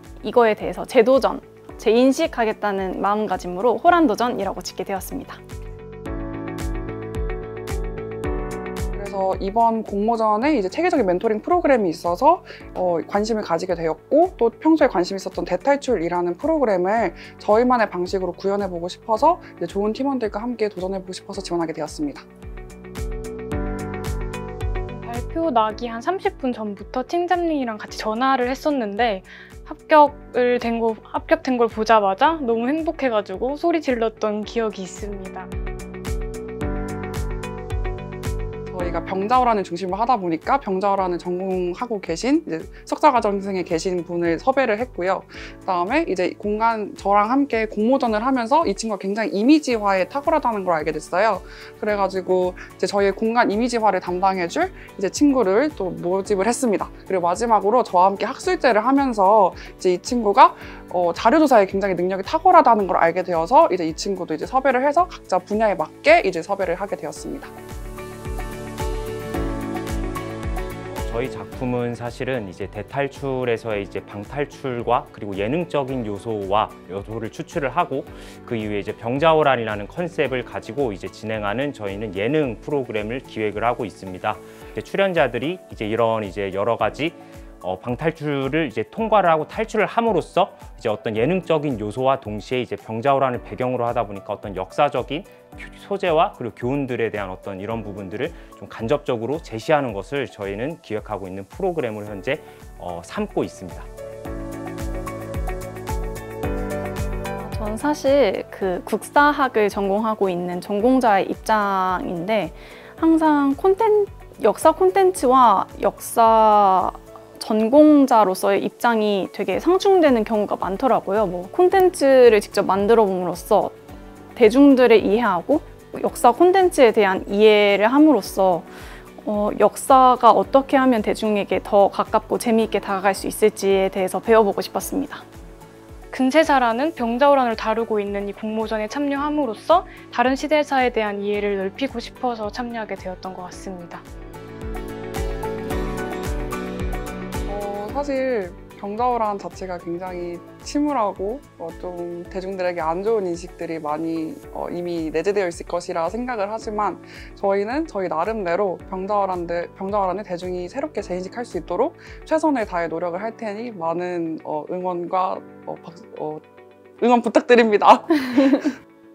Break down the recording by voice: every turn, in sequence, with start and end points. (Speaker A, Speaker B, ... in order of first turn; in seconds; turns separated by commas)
Speaker A: 0.2-5.4, Speaker B: 8.9-22.2, Speaker C: 24.9-35.5, Speaker B: 38.7-67.5, Speaker D: 70.9-103.9, Speaker A: 107.4-123.8, Speaker A: 124.3-128.7, Speaker A: 129.2-135.2, Speaker C: 136.1-144.0, Speaker B: 147.4-166.4, Speaker B: 167.0-168.8